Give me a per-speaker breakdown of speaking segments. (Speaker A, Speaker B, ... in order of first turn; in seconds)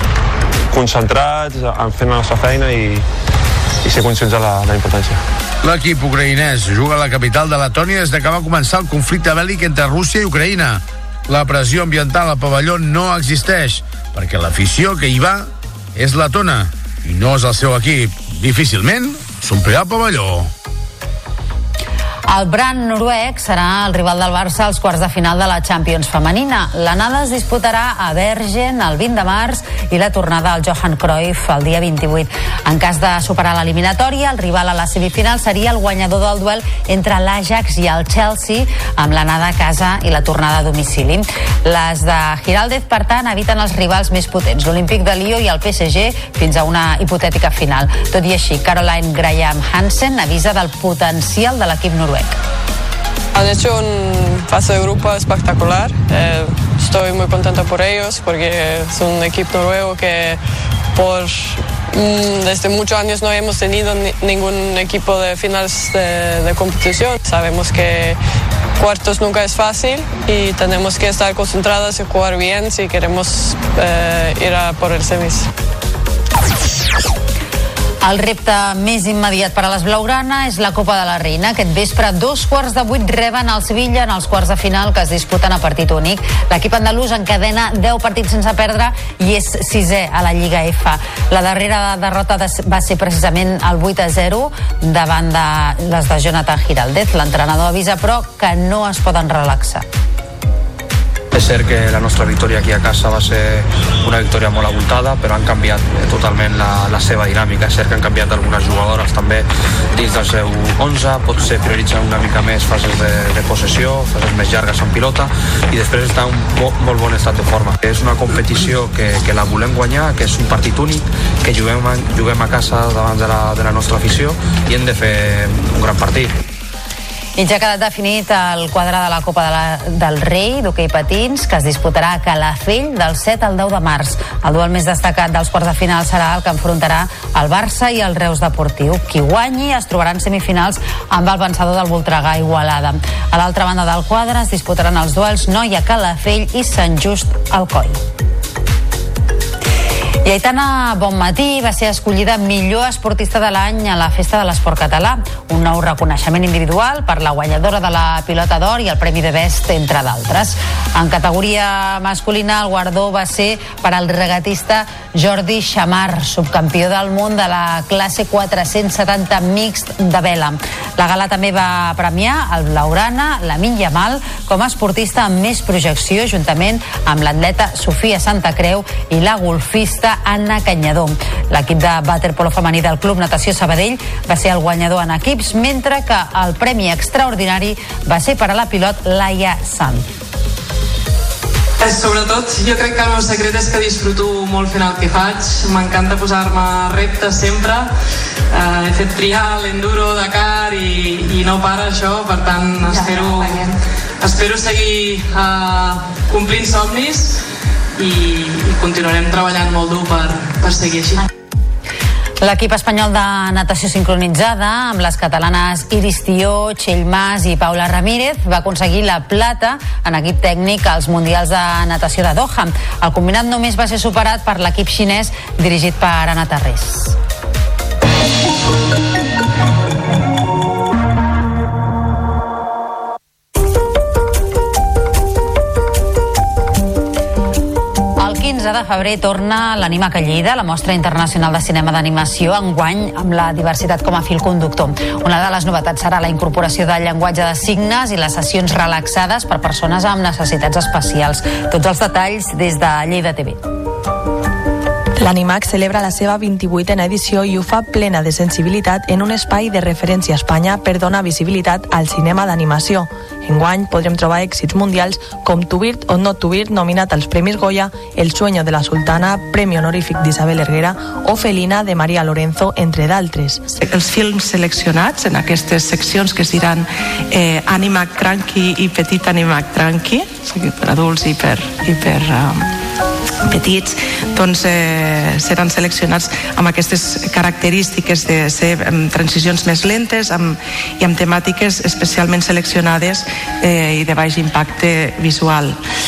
Speaker A: 0.7-3.0, 3.8-5.2
Speaker B: 5.6-20.5
Speaker C: 22.3-52.4, 78.0-99.8, 127.4-148.0, 150.2-190.1, 212.4-227.1, 238.2-253.6
Speaker D: 53.3-60.4, 60.9-68.2, 68.8-75.5
Speaker E: 101.3-126.4
Speaker F: 191.8-197.8, 198.6-203.6, 204.2-207.2, 208.0-211.1
Speaker G: 255.2-273.7
Speaker H: 273.7-282.7, 283.5-295.8